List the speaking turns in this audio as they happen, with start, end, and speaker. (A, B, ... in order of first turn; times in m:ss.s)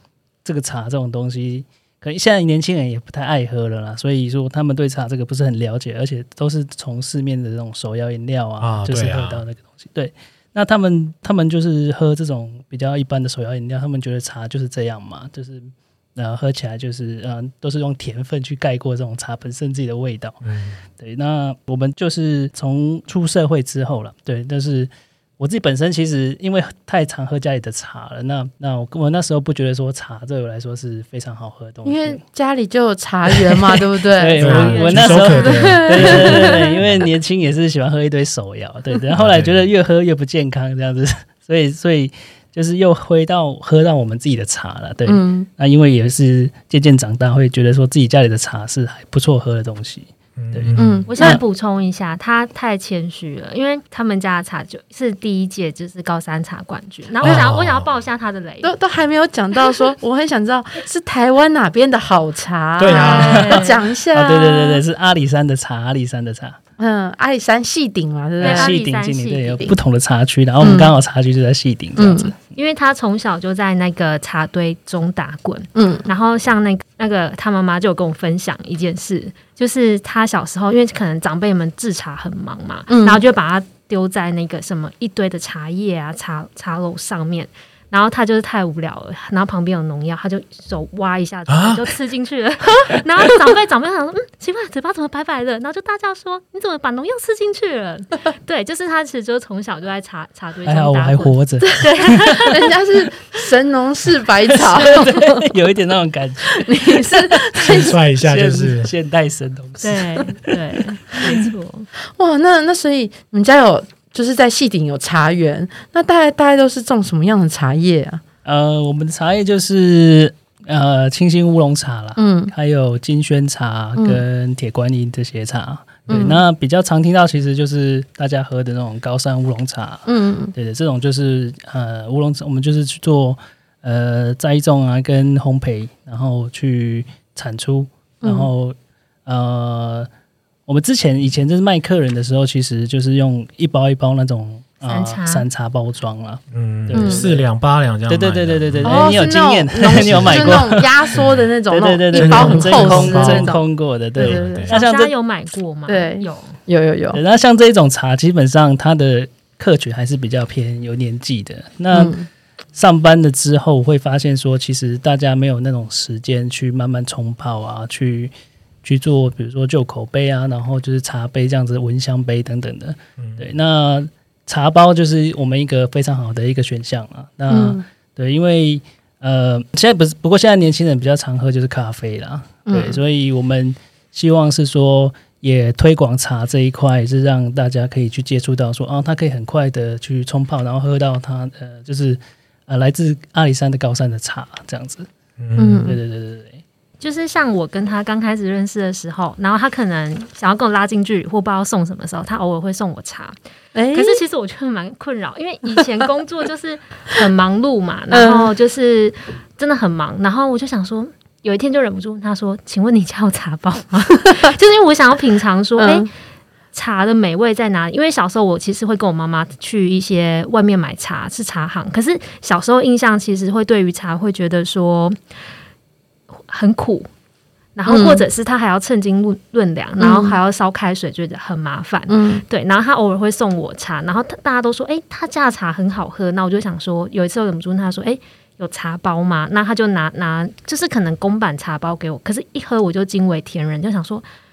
0:00.4-0:20.4 A
0:08.6-0:09.4 B
0:20.4-0:20.8 B
0:21.0-0:32.2 A
0:31.8-0:36.8 C
0:33.3-0:51.4 A
0:34.4-0:35.8 D
0:34.4-0:37.1 B
0:39.1-0:39.6 B
0:45.0-0:45.5 C
0:50.4-0:51.0 B
0:50.8-0:51.4 C
0:51.1-0:58.7 D
0:57.2-0:57.9 B
0:58.6-1:04.8 C
1:02.8-1:03.6 B
1:02.9-1:03.8 D
1:03.3-1:06.6 A
1:06.8-1:08.7 C
1:08.4-1:09.6 D
1:08.4-1:12.4 A
1:10.6-1:10.9 C
1:12.0-1:12.3 C
1:12.6-1:42.7 D
1:15.7-1:16.1 C
1:22.9-1:23.2 C
1:31.5-1:31.8 B
1:40.6-1:42.5 A
1:41.6-1:45.5 C
1:44.4-1:51.5 A
1:46.5-1:48.0 C
1:47.6-1:48.9 B
1:49.8-1:51.9 D
1:52.1-1:58.2 C
1:58.4-2:20.1 A
2:02.2-2:02.5 C
2:04.0-2:04.2 C
2:06.1-2:06.4 C
2:10.1-2:10.5 C
2:18.2-2:18.5 C
2:20.6-2:27.5 A
2:24.9-2:25.5 D
2:26.5-2:29.1 B
2:26.9-2:27.3 C
2:28.1-2:30.9 A
2:28.8-2:33.6 C
2:30.0-2:31.5 B
2:31.7-2:35.1 A
2:32.2-2:33.5 B
2:34.2-2:34.7 C
2:34.2-2:34.8 B
2:34.7-2:36.6 D
2:35.9-2:37.2 C
2:37.1-2:42.2 A
2:41.9-2:42.3 C
2:42.7-2:48.3 A
2:48.8-3:15.1 A
2:53.2-2:53.4 B
2:57.5-2:57.8 C
3:02.7-3:03.0 C
3:15.4-3:15.9 B
3:15.6-3:16.0 C
3:15.8-3:16.6 A
3:17.0-3:23.4 D
3:23.8-3:24.2 C
3:23.9-3:36.1 D
3:28.1-3:28.5 C
3:35.8-3:36.1 C
3:36.7-3:45.2 D
3:46.3-3:47.1 D
3:47.8-4:04.2 D
3:47.9-3:48.2 C
3:50.0-3:50.4 C
3:52.1-3:52.4 C